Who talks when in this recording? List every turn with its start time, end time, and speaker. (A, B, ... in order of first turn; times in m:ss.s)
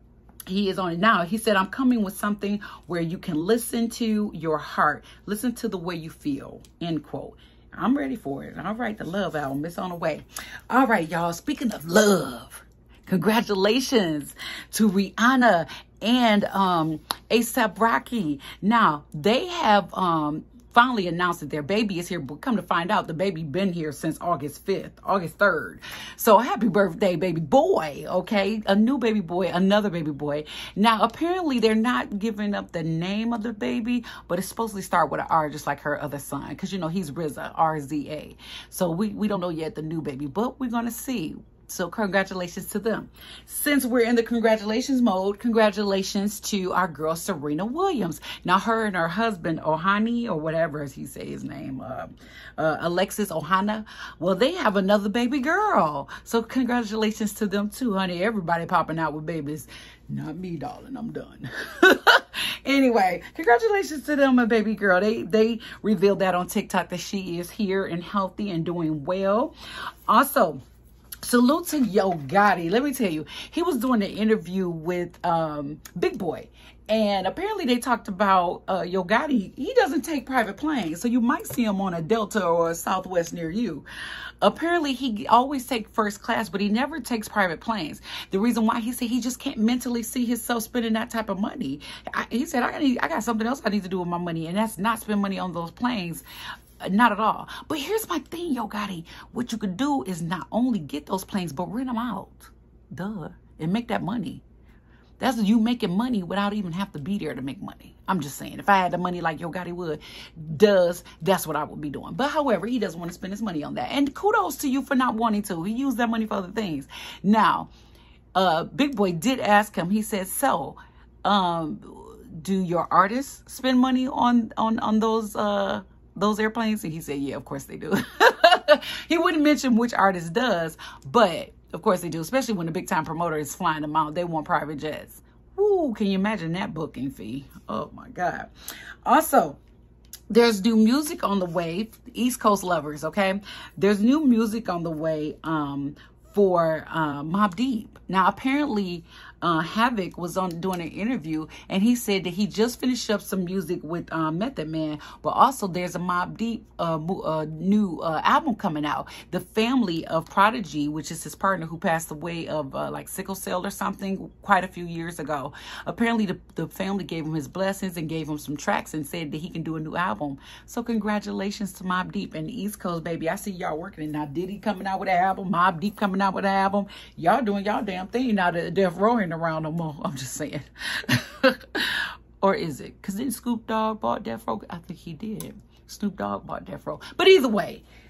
0:00.5-1:09.5 A
1:10.1-1:10.6 A
1:11.2-1:23.8 A
1:24.4-1:36.2 A
1:36.8-1:44.4 A
1:45.2-1:57.7 A
1:58.3-2:18.5 A
2:19.0-2:19.6 A
2:20.3-3:07.8 A